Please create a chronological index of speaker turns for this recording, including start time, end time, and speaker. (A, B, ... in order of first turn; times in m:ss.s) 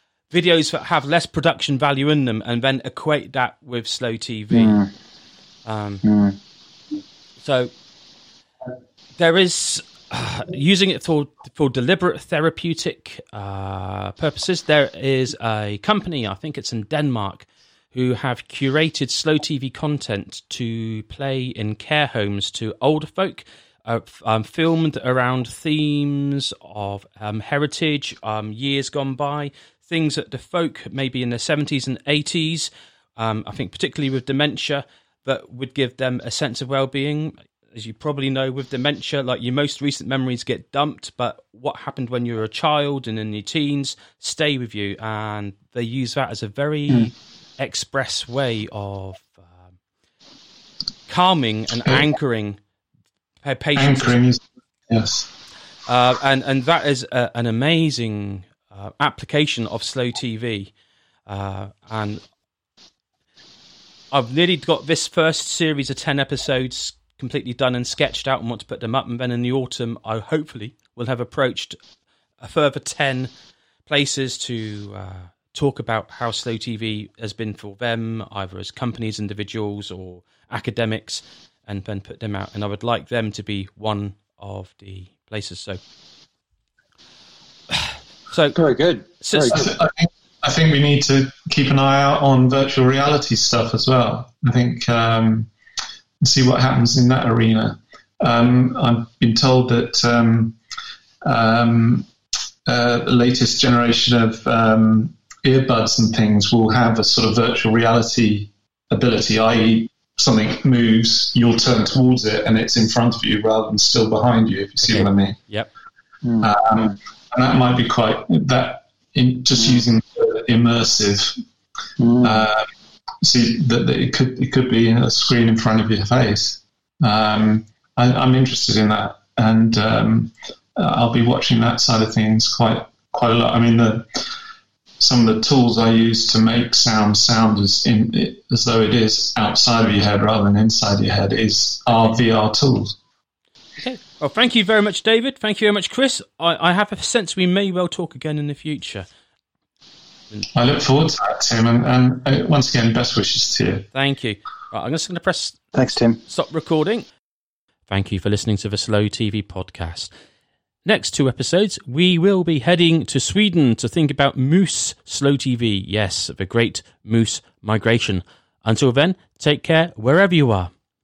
0:00.3-0:04.8 A
0:04.5-0:04.9 B
0:05.6-0:06.0 A
0:06.0-0:06.4 B
0:07.4-0:07.7 A
0:09.2-0:49.5 A
0:51.1-0:52.6 A
0:53.4-0:54.2 A
0:53.8-0:55.3 C
0:55.8-1:00.7 A
1:01.3-1:02.2 A
1:04.1-1:11.8 A
1:12.4-1:13.3 A
1:13.9-1:25.8 A
1:27.7-1:28.6 A
1:28.5-1:29.6 B
1:29.2-1:29.7 A
1:29.5-1:35.5 C
1:36.2-1:40.6 C
1:41.2-1:42.1 C
1:42.6-1:55.4 C
1:54.8-1:55.7 A
1:56.2-1:56.9 B
1:56.4-2:01.4 C
2:02.0-2:02.4 B
2:02.2-2:02.6 C
2:03.2-2:14.2 C
2:15.0-2:23.0 C
2:23.8-2:29.1 A
2:30.5-2:33.8 C
2:33.9-2:35.7 A
2:35.7-2:36.2 B
2:36.2-2:37.1 A
2:37.9-2:40.1 A
2:40.8-2:50.7 A